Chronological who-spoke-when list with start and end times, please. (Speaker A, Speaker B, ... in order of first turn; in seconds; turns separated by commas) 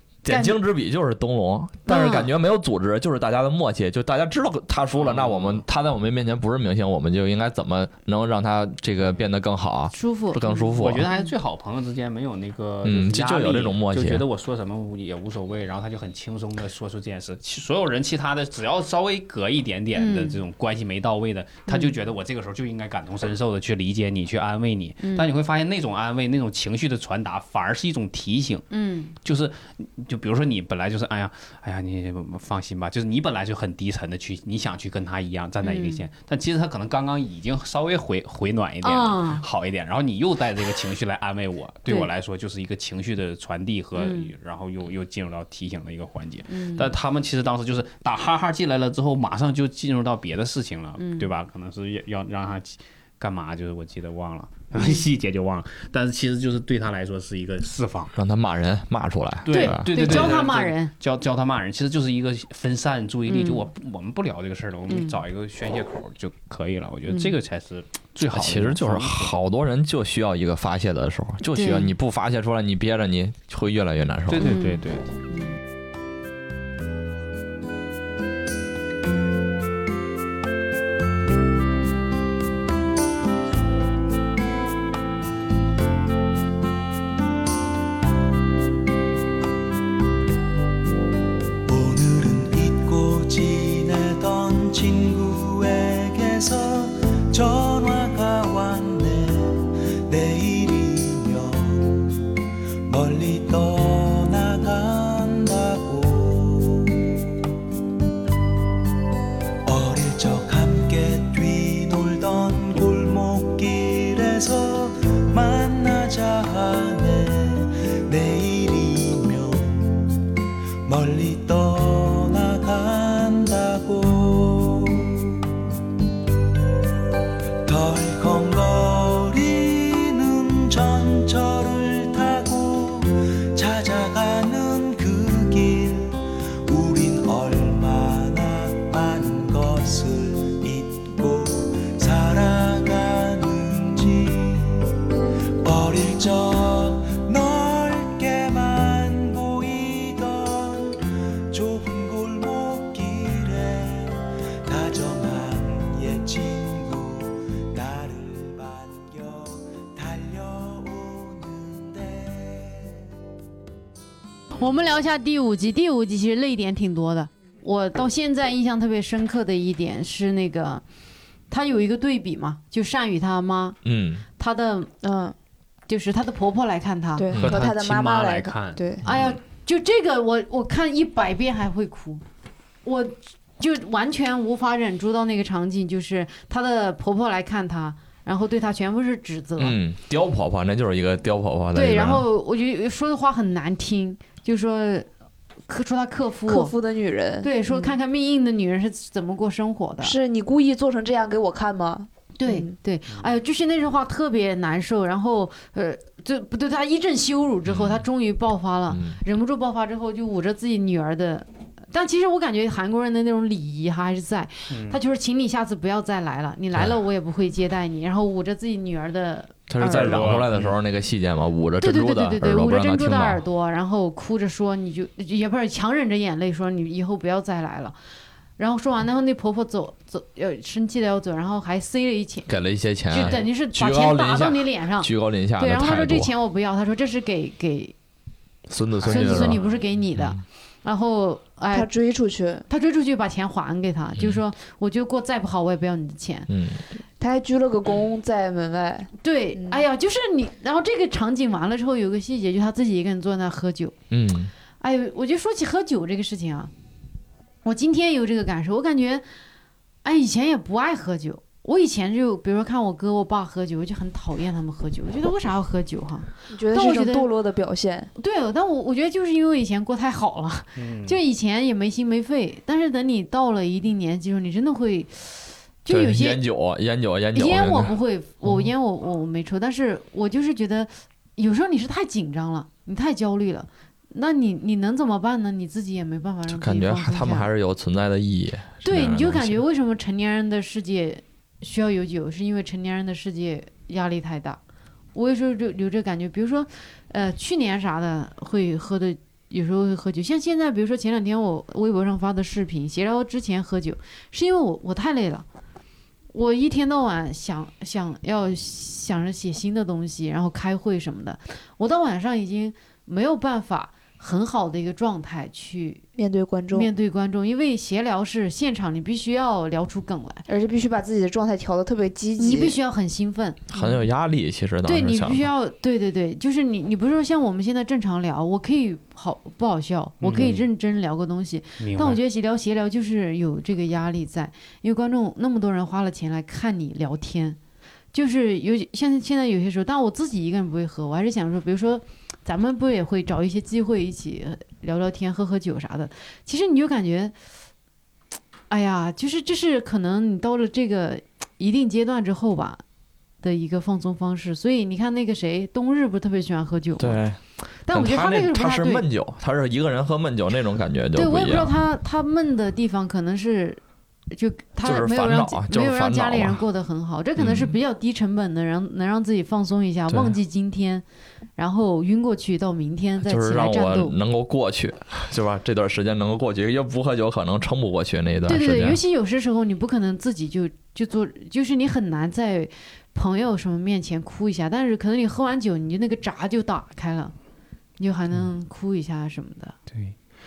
Speaker A: 0.2-11.1, Speaker B: 0.3-0.6, Speaker B: 1.9-2.3, Speaker C: 4.9-5.6, Speaker B: 9.9-11.3, Speaker C: 10.8-28.7, Speaker A: 12.8-14.2, Speaker B: 20.0-20.4, Speaker B: 21.7-22.0, Speaker B: 25.0-25.3, Speaker B: 28.7-29.1, Speaker C: 29.2-58.2, Speaker B: 35.6-36.1, Speaker B: 38.8-39.4, Speaker B: 44.0-44.3, Speaker B: 46.5-46.9, Speaker B: 51.0-51.3, Speaker B: 54.8-55.1, Speaker A: 58.1-60.4, Speaker C: 59.5-69.3, Speaker B: 59.5-60.9, Speaker B: 63.3-63.7, Speaker B: 64.9-65.2, Speaker A: 68.3-74.5, Speaker B: 71.5-71.9, Speaker C: 74.3-75.1, Speaker B: 74.4-75.5, Speaker D: 91.7-102.3, Speaker D: 102.9-107.3, Speaker D: 109.7-120.1, Speaker D: 120.9-125.5, Speaker D: 127.6-145.0, Speaker D: 145.6-163.0, Speaker B: 164.5-170.8, Speaker B: 171.5-173.8, Speaker A: 173.8-174.2, Speaker B: 174.4-174.9, Speaker E: 175.0-175.3, Speaker B: 175.9-177.3, Speaker E: 177.2-179.0, Speaker A: 177.3-177.7, Speaker C: 177.4-178.9, Speaker A: 179.0-179.4, Speaker B: 179.0-182.2, Speaker B: 182.8-189.8, Speaker A: 189.6-192.2, Speaker B: 191.7-195.1, Speaker B: 195.7-196.7, Speaker E: 196.5-198.0, Speaker B: 197.4-200.2, Speaker E: 200.0-202.7, Speaker B: 202.4-220.1, Speaker A: 207.7-208.1, Speaker A: 208.9-209.2, Speaker C: 214.7-215.0, Speaker A: 219.7-223.4, Speaker C: 219.8-220.8, Speaker B: 221.8-227.9, Speaker B: 228.6-232.5, Speaker A: 232.5-236.3, Speaker B: 233.1-237.9, Speaker A: 238.7-239.6, Speaker B: 239.0-241.9, Speaker C: 239.1-239.6, Speaker A: 240.2-240.4, Speaker E: 241.7-242.7, Speaker B: 242.7-246.5, Speaker A: 246.5-246.8, Speaker E: 247.2-249.8, Speaker B: 249.2-253.9, Speaker A: 254.1-254.5, Speaker B: 254.8-256.7, Speaker B: 257.6-259.2, Speaker B: 260.0-267.3, Speaker E: 266.5-268.1, Speaker B: 268.2-276.4, Speaker C: 270.8-271.2, Speaker A: 275.9-277.9, Speaker B: 277.4-287.5, Speaker A: 286.5-289.6, Speaker B: 288.8-294.6, Speaker B: 295.1-305.4, Speaker B: 306.3-316.0, Speaker E: 316.2-316.9, Speaker B: 316.7-320.4, Speaker E: 320.5-322.8, Speaker B: 322.4-323.7, Speaker A: 323.7-325.5, Speaker E: 323.7-324.0, Speaker B: 324.9-337.6, Speaker C: 330.2-330.6, Speaker C: 331.8-332.2, Speaker B: 338.1-347.4, Speaker B: 348.7-352.8, Speaker B: 353.4-357.2, Speaker A: 357.0-361.7, Speaker B: 357.9-359.1, Speaker B: 361.1-363.8, Speaker B: 364.3-371.1, Speaker A: 364.8-366.6, Speaker A: 367.4-367.8, Speaker A: 370.1-370.4, Speaker B: 371.6-374.2, Speaker A: 373.2-379.0, Speaker B: 378.5-387.3, Speaker B: 388.0-389.8, Speaker C: 389.9-390.2